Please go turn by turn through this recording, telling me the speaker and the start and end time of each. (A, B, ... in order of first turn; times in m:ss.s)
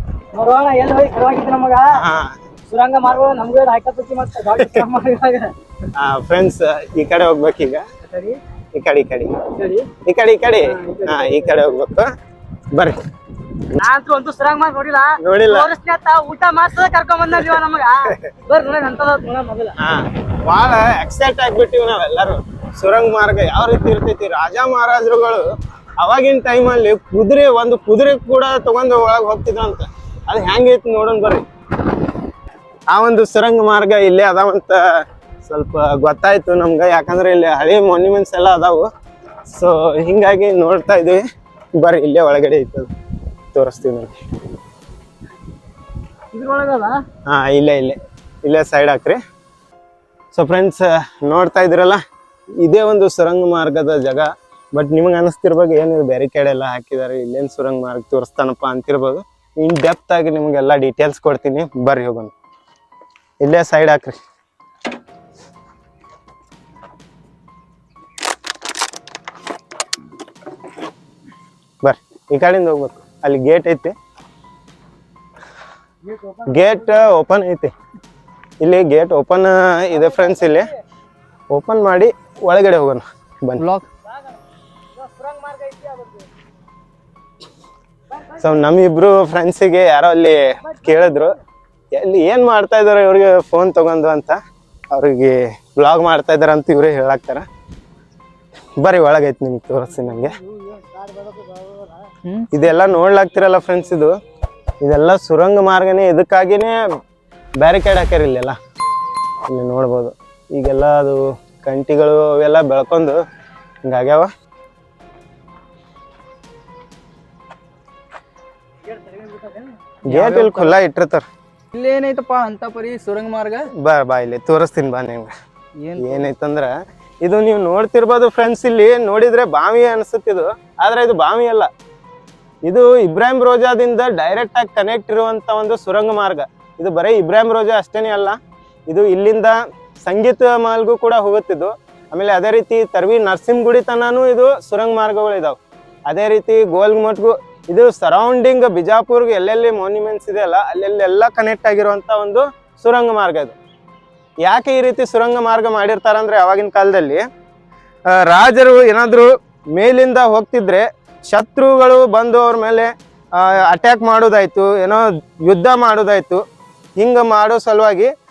0:00.3-0:02.0 A
0:01.9-0:02.4 B
0:02.7-0:05.5 A
0:04.5-0:04.8 B
0:05.9-0:07.8 B
0:08.0-0:08.4 A
0:08.7-0:09.4 B
0:09.5-0:09.9 A
0:10.0-0:12.1 B
0:10.7-0:11.6 A
0:12.7-0:13.0 B
0:13.7-0:19.7 A
0:15.2-0:15.7 B
0:17.3-0:18.3 B
0:19.8-0:31.4 B
0:32.9-0:34.8 B
0:35.4-0:38.9 B
0:39.5-0:41.2 B
0:41.8-0:42.9 B
0:43.5-0:44.2 B
0:46.3-0:47.0 A
0:47.2-0:49.2 B
0:50.3-0:52.0 B
0:52.6-1:02.3 B
1:03.4-1:04.2 B
1:11.8-1:13.9 B
1:16.1-1:16.7 A
1:16.4-1:17.7 B
1:18.6-1:20.7 B
1:19.9-1:20.7 A
1:21.5-1:23.6 B
1:23.6-1:23.9 C
1:24.1-1:24.4 A
1:25.0-1:26.3 A
1:28.1-1:28.5 A
1:28.4-1:31.4 B
1:30.7-1:31.2 A
1:31.9-1:34.4 B
1:34.9-1:37.4 B
1:38.8-1:40.4 B
1:40.1-1:42.1 A
1:42.5-1:44.1 B
1:44.8-1:46.8 B
1:47.6-1:48.6 B
1:49.5-1:53.2 B
1:53.8-1:54.3 B
1:58.8-1:59.8 A
2:00.1-2:01.2 B
2:00.1-2:00.8 C
2:01.7-2:03.7 C
2:03.8-2:05.3 B
2:05.8-2:06.3 C
2:06.0-2:11.7 B
2:12.6-2:18.4 B
2:18.9-2:33.6 B
2:34.4-2:37.2 B
2:38.1-2:46.4 B
2:47.0-2:48.1 B